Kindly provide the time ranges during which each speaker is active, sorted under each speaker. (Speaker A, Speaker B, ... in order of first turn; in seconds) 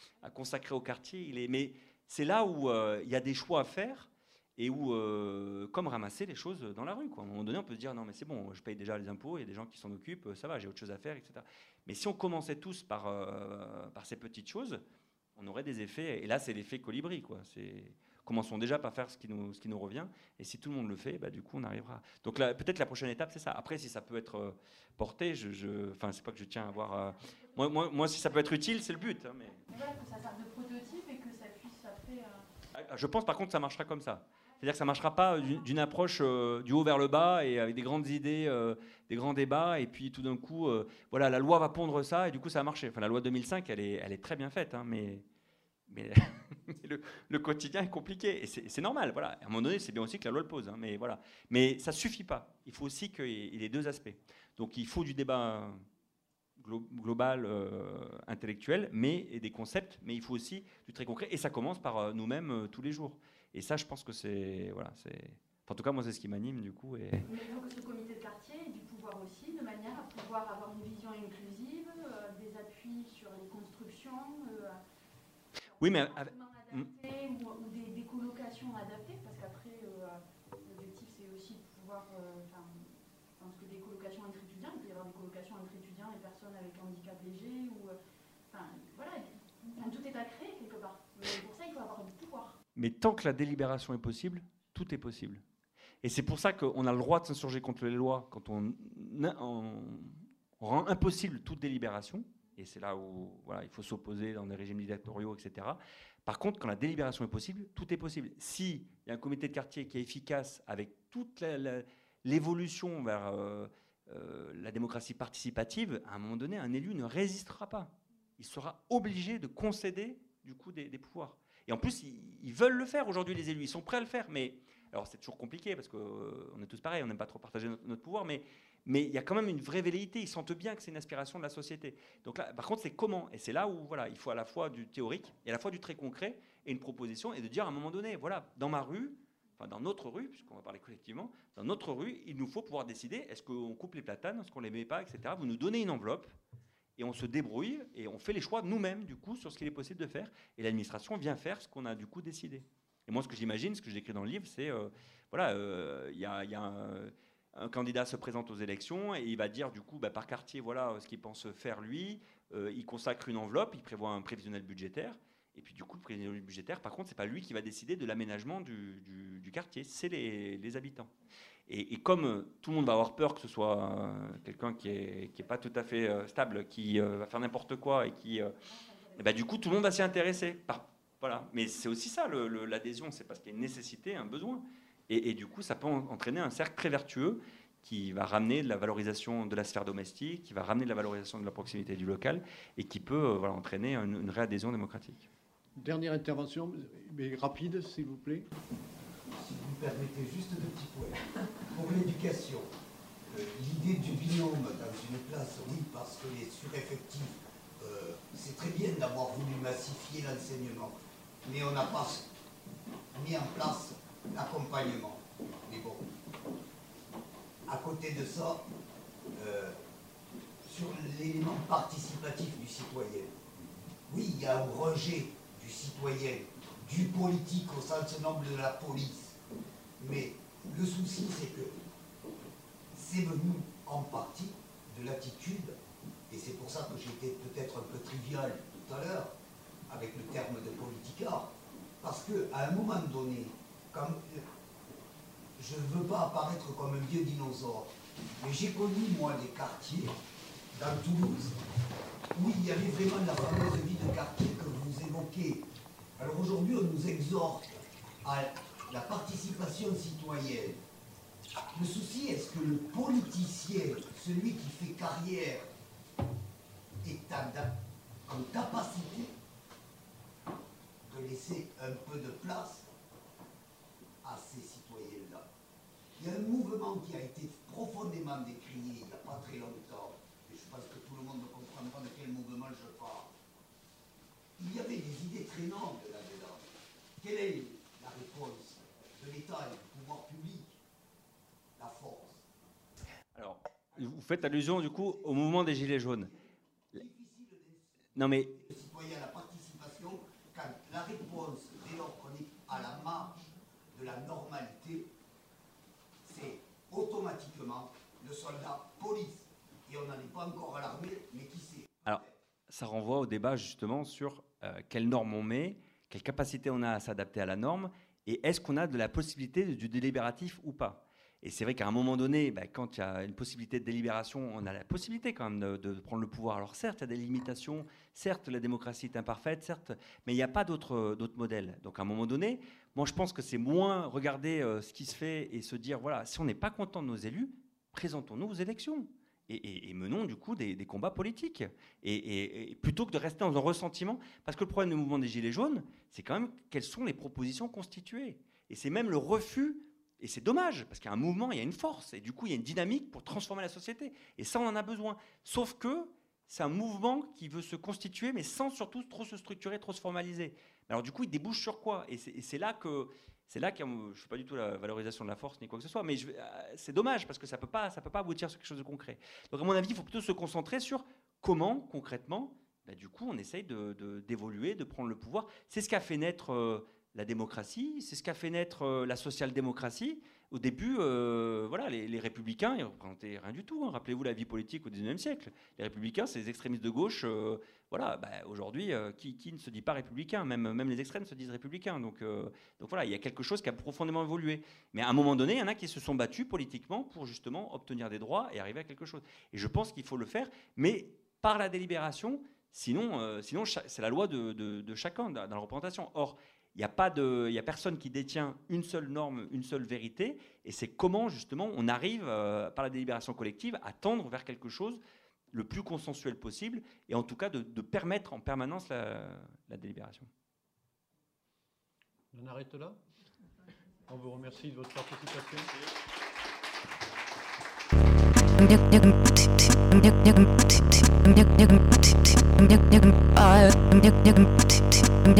Speaker A: 0.2-14.8, 15.4-29.6, 32.7-45.2, 45.9-55.8, 56.6-67.2, 75.8-76.9, 92.8-95.4, 96.0-146.3, 147.0-171.1, 171.7-178.5, 179.2-195.3, 293.4-296.3, 298.2-298.5, 312.1-415.0, 415.5-420.3
Speaker B: 29.7-32.5, 67.2-74.8, 75.8-88.0, 88.5-92.6, 178.6-179.4
Speaker C: 195.8-198.5, 422.3-423.0, 424.1-425.7
Speaker D: 199.4-202.7, 203.3-212.3, 213.2-216.1, 217.7-218.6, 219.3-219.8, 220.7-223.4, 224.1-229.4, 230.0-231.8, 232.9-235.8, 236.3-239.3, 239.9-244.5, 245.6-250.1, 250.8-251.6, 252.3-255.7, 256.2-260.8, 261.8-265.7, 267.0-267.7, 268.3-269.3, 271.1-272.9, 274.2-275.5, 276.2-283.3, 284.6-290.8, 291.8-292.4, 296.9-297.9, 298.5-305.1, 306.2-312.3